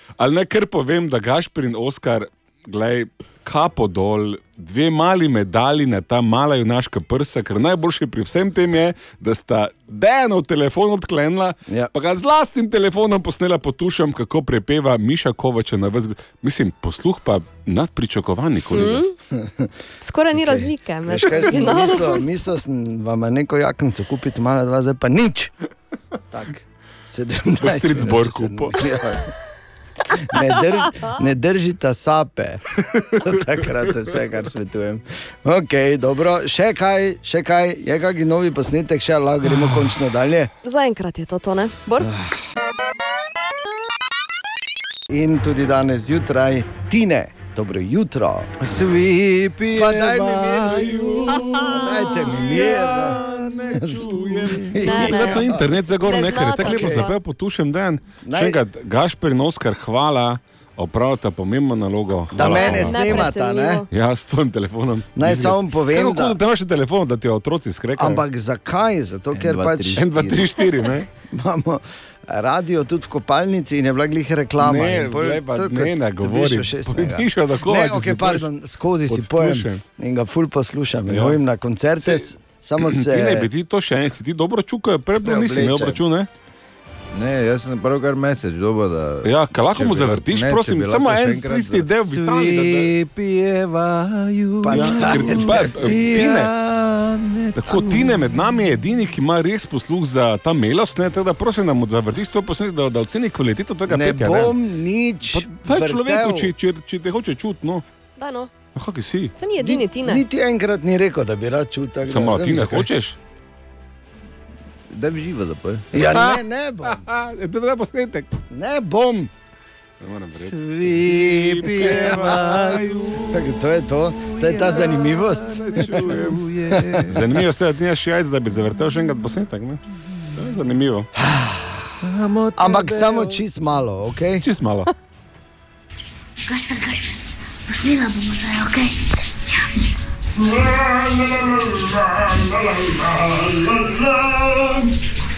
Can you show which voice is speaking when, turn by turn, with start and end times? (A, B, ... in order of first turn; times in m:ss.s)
0:00.2-0:19.0 A
0:18.7-0:19.1 B
0:19.3-0:19.7 C
0:20.0-0:22.2 B
0:20.3-0:25.5 C
0:26.3-0:29.3 C
0:27.6-0:28.8 A
0:30.1-0:40.5 C
0:40.6-0:42.1 B
0:45.1-0:48.5 C
0:48.6-0:52.0 D
0:49.7-0:55.7 C
0:51.3-1:03.3 A
0:52.8-0:54.8 D
0:54.8-0:55.5 B
0:56.0-0:57.2 B
0:56.6-0:57.1 C
0:58.2-0:58.6 C
1:02.3-1:03.8 C
1:02.4-1:03.9 B
1:03.9-1:08.2 A
1:05.2-1:06.4 C
1:08.0-1:10.2 C
1:09.3-1:10.6 D
1:10.0-1:11.1 A
1:11.3-1:23.5 C
1:14.6-1:18.5 A
1:19.1-1:19.8 A
1:21.1-1:21.4 A
1:22.8-1:26.3 A
1:25.2-1:26.0 C
1:27.1-1:38.8 D
1:29.2-1:32.9 A
1:34.6-1:35.9 C
1:34.7-1:36.5 A
1:37.6-1:44.6 A
1:43.9-1:46.5 C
1:45.3-1:47.8 A
1:48.2-1:48.5 B
1:48.8-1:49.3 A
1:49.4-1:50.2 B
1:49.6-1:52.9 C
1:52.1-1:53.2 A
1:54.9-1:55.9 D
1:55.9-1:57.0 C
1:56.1-1:58.3 A
1:58.5-1:59.3 C
2:00.0-2:03.2 A
2:00.3-2:07.5 D
2:01.8-2:02.6 C
2:03.3-2:06.1 C
2:05.5-2:06.4 A
2:07.1-2:09.8 A
2:10.4-2:11.1 A
2:11.2-2:11.9 C
2:12.0-2:13.4 D
2:12.6-2:14.4 C
2:14.4-2:14.9 A
2:16.5-2:19.0 E
2:20.4-2:24.9 C